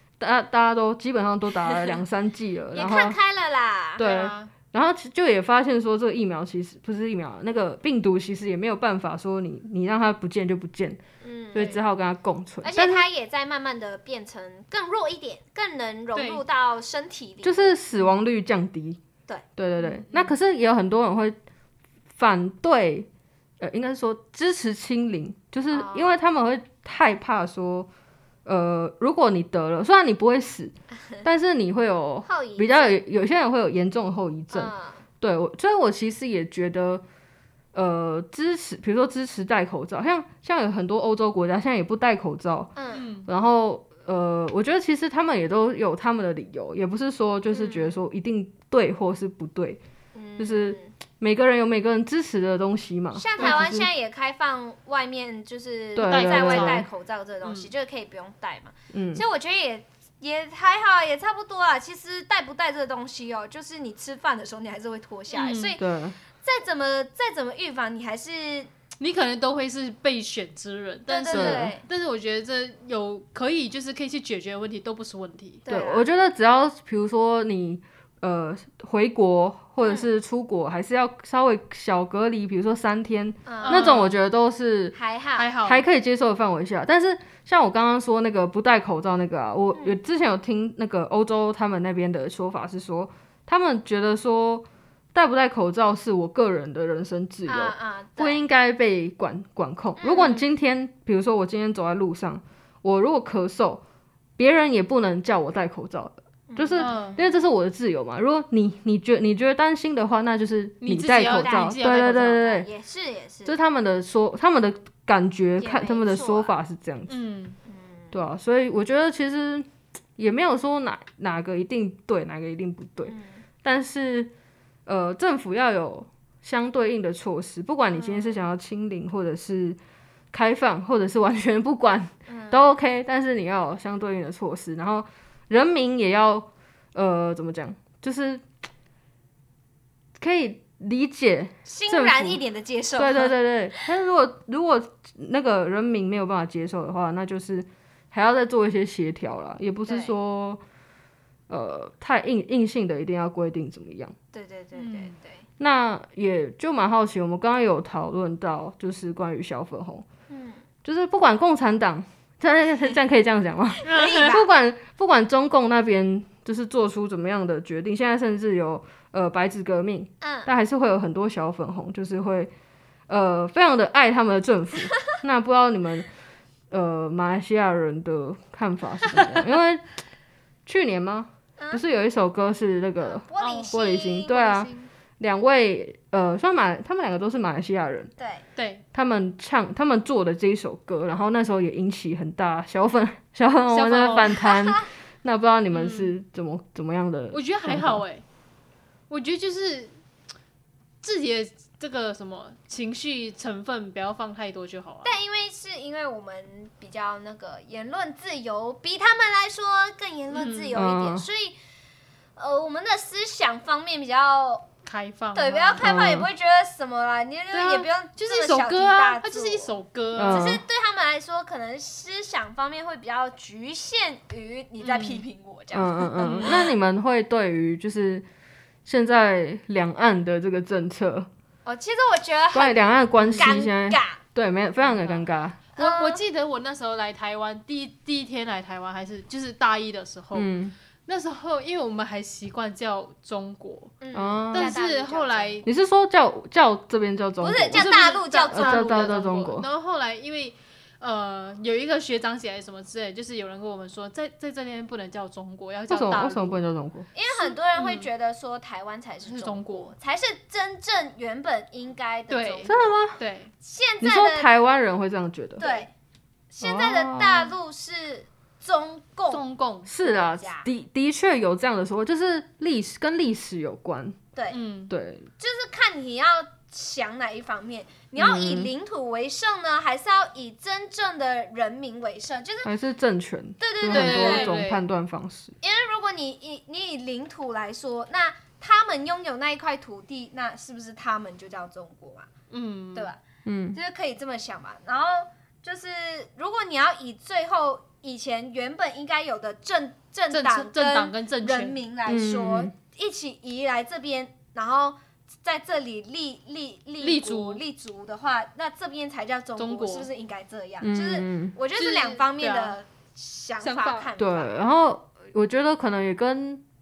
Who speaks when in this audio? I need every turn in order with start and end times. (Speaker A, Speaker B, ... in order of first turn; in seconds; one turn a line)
Speaker A: 0.2-3.2
Speaker B: 2.7-4.0
Speaker C: 4.0-4.5
Speaker A: 4.0-11.0
Speaker B: 11.2-11.8
Speaker A: 11.5-13.0
Speaker C: 11.6-11.8
Speaker B: 12.6-17.8
Speaker C: 16.1-16.4
Speaker A: 17.4-19.0
Speaker A: 19.6-21.4
Speaker C: 19.8-20.4
Speaker A: 22.2-23.1
Speaker A: 23.6-27.9
Speaker B: 25.7-26.2
Speaker A: 28.4-37.0
Speaker B: 32.2-33.0
Speaker B: 34.5-35.0
Speaker A: 37.7-42.7
Speaker B: 42.8-43.1
Speaker C: 42.9-43.3
Speaker A: 43.3-49.8
Speaker B: 47.5-48.0
Speaker B: 50.1-50.9
Speaker A: 50.4-53.9
Speaker B: 53.1-65.8
Speaker C: 53.4-53.7
Speaker A: 56.0-56.9
Speaker C: 56.0-56.9
Speaker C: 57.4-57.7
Speaker A: 58.9-59.2
Speaker C: 65.3-65.8
Speaker A: 65.8-66.2
Speaker B: 66.4-68.7
Speaker C: 69.0-75.6
Speaker B: 71.1-71.8
Speaker A: 71.3-71.7
Speaker B: 75.7-76.1
Speaker A: 75.7-85.0
Speaker B: 79.8-80.1
Speaker B: 83.5-84.0
Speaker C: 83.6-84.2
Speaker B: 84.9-85.5
Speaker C: 85.4-85.8
Speaker A: 85.6-103.8
Speaker B: 97.5-98.5
Speaker B: 100.0-100.4
Speaker C: 100.2-100.4
Speaker A: 104.4-112.7
Speaker B: 106.5-107.4
Speaker C: 106.8-107.2
Speaker C: 110.8-112.4
Speaker B: 111.3-113.6
Speaker A: 113.5-117.2
Speaker B: 115.6-116.5
Speaker C: 117.1-117.6
Speaker B: 117.7-118.2
Speaker A: 118.1-124.3
Speaker B: 123.1-123.4
Speaker A: 124.9-129.8
Speaker B: 127.9-128.4
Speaker A: 130.3-138.4
Speaker B: 132.3-132.7
Speaker A: 140.2-142.4
Speaker B: 141.7-143.3
Speaker A: 143.0-150.6
Speaker B: 149.9-150.1
Speaker A: 151.5-154.1
Speaker B: 154.3-155.4
Speaker C: 154.8-155.1
Speaker A: 155.6-160.1
Speaker B: 160.3-160.6
Speaker A: 160.8-172.5
Speaker C: 163.8-164.4
Speaker B: 163.8-164.5
Speaker B: 170.2-170.5
Speaker A: 173.1-176.1
Speaker A: 176.7-179.8
Speaker A: 180.7-188.1
Speaker B: 181.6-181.8
Speaker B: 183.0-184.6
Speaker C: 183.4-184.9
Speaker B: 188.2-188.4
Speaker C: 188.6-188.8
Speaker A: 188.9-198.0
Speaker C: 193.7-194.4
Speaker C: 195.7-196.1
Speaker C: 197.3-198.2
Speaker C: 199.1-199.9
Speaker C: 201.0-205.1
Speaker B: 205.0-211.6
Speaker C: 210.3-210.8
Speaker A: 210.8-211.3
Speaker B: 212.4-214.7
Speaker C: 214.8-215.9
Speaker B: 215.3-226.7
Speaker A: 215.8-216.3
Speaker C: 217.5-220.5
Speaker A: 220.1-220.6
Speaker C: 224.8-225.2
Speaker A: 225.7-228.2
Speaker C: 226.2-226.6
Speaker A: 228.8-231.3
Speaker B: 231.7-234.2
Speaker A: 232.5-235.6
Speaker C: 233.2-233.5
Speaker B: 234.9-235.1
Speaker B: 235.8-236.2
Speaker C: 235.8-240.5
Speaker A: 240.3-240.7
Speaker C: 241.1-244.0
Speaker B: 244.0-245.7
Speaker A: 244.1-244.8
Speaker C: 244.5-245.7
Speaker A: 245.7-247.9
Speaker B: 247.4-249.2
Speaker C: 247.7-256.6
Speaker A: 248.5-249.7
Speaker A: 255.9-257.1
Speaker B: 257.1-263.0
Speaker C: 257.3-258.1
Speaker C: 259.2-259.9
Speaker C: 262.3-263.5
Speaker A: 262.7-263.2
Speaker B: 263.6-264.5
Speaker A: 264.0-265.6
Speaker B: 265.6-265.9
Speaker C: 265.6-265.9
Speaker B: 266.5-269.4
Speaker A: 266.6-267.5
Speaker C: 269.3-269.9
Speaker A: 269.9-274.2
Speaker B: 270.0-270.7
Speaker B: 274.4-274.6
Speaker C: 274.5-274.9
Speaker A: 274.9-275.3
Speaker B: 275.4-282.7
Speaker A: 278.2-278.7
Speaker A: 282.6-285.6
Speaker B: 283.6-284.6
Speaker C: 283.9-284.8
Speaker B: 285.6-292.3
Speaker C: 292.5-293.1
Speaker B: 292.9-293.2
Speaker A: 293.4-293.8
Speaker B: 293.7-314.6
Speaker C: 300.3-301.8
Speaker A: 302.1-302.7
Speaker C: 307.0-307.6
Speaker C: 309.6-310.1
Speaker A: 310.8-311.5
Speaker C: 311.8-312.8
Speaker C: 313.6-314.1
Speaker A: 314.2-316.6